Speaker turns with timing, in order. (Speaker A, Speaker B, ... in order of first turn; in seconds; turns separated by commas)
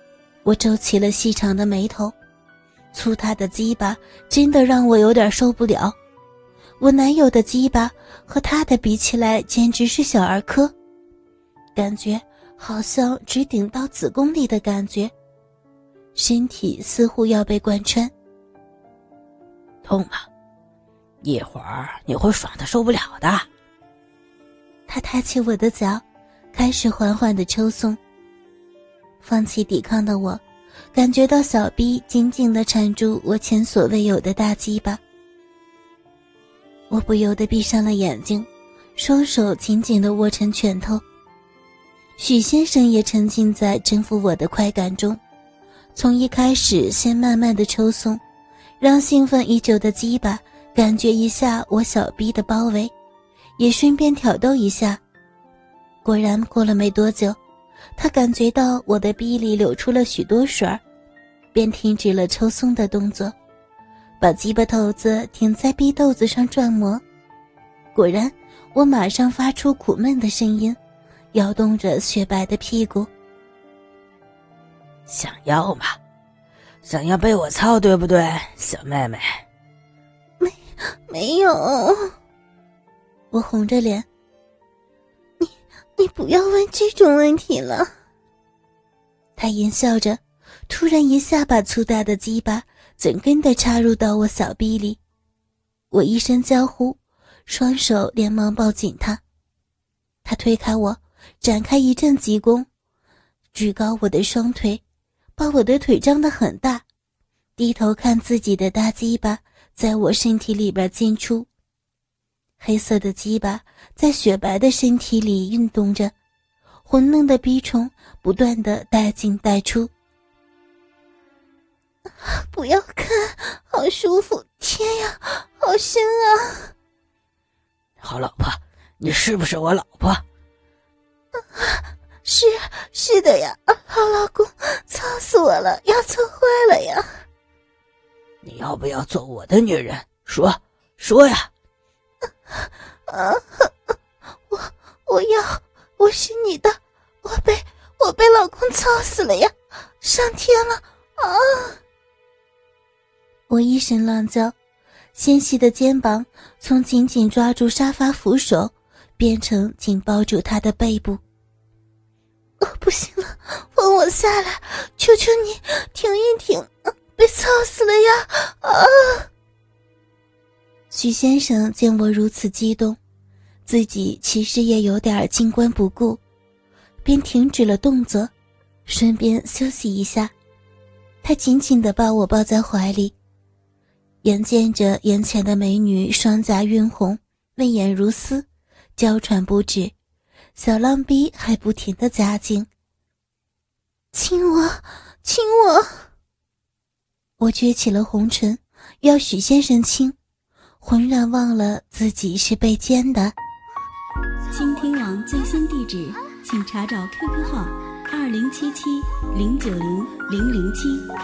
Speaker A: 0.4-2.1, Speaker A: 2.9-6.0, Speaker A: 6.8-10.7, Speaker A: 11.7-15.1, Speaker A: 16.1-18.1, Speaker B: 19.8-20.3, Speaker B: 21.2-23.5, Speaker A: 24.9-28.0, Speaker A: 29.2-30.4, Speaker A: 30.9-35.0, Speaker A: 36.9-41.0, Speaker A: 42.2-45.2, Speaker A: 45.9-48.2, Speaker A: 48.8-52.9, Speaker A: 53.6-55.0, Speaker A: 56.0-57.4, Speaker A: 58.0-60.8, Speaker A: 61.5-63.3, Speaker A: 64.2-67.0, Speaker A: 67.9-70.8, Speaker A: 71.3-73.1, Speaker B: 75.1-76.0, Speaker B: 76.8-79.4, Speaker A: 80.4-82.1, Speaker A: 83.3-84.1, Speaker A: 85.4-87.9, Speaker A: 89.3-95.0, Speaker A: 95.9-99.2, Speaker A: 100.2-102.7, Speaker A: 103.5-104.8, Speaker A: 105.4-106.8, Speaker A: 107.6-111.5, Speaker A: 112.6-116.1, Speaker A: 116.8-119.9, Speaker A: 122.2-126.7, Speaker B: 128.0-130.2, Speaker A: 131.5-137.1, Speaker B: 138.4-141.5, Speaker A: 142.6-143.7, Speaker A: 144.5-151.8, Speaker A: 153.5-154.5, Speaker A: 155.1-161.2, Speaker A: 162.6-169.3, Speaker A: 170.9-173.0, Speaker A: 173.7-176.2, Speaker A: 177.0-178.3, Speaker A: 178.8-180.3, Speaker A: 181.2-183.1, Speaker A: 184.2-189.9, Speaker A: 190.5-192.7, Speaker A: 194.1-196.0, Speaker A: 197.4-200.2, Speaker A: 200.8-203.3, Speaker C: 204.5-211.1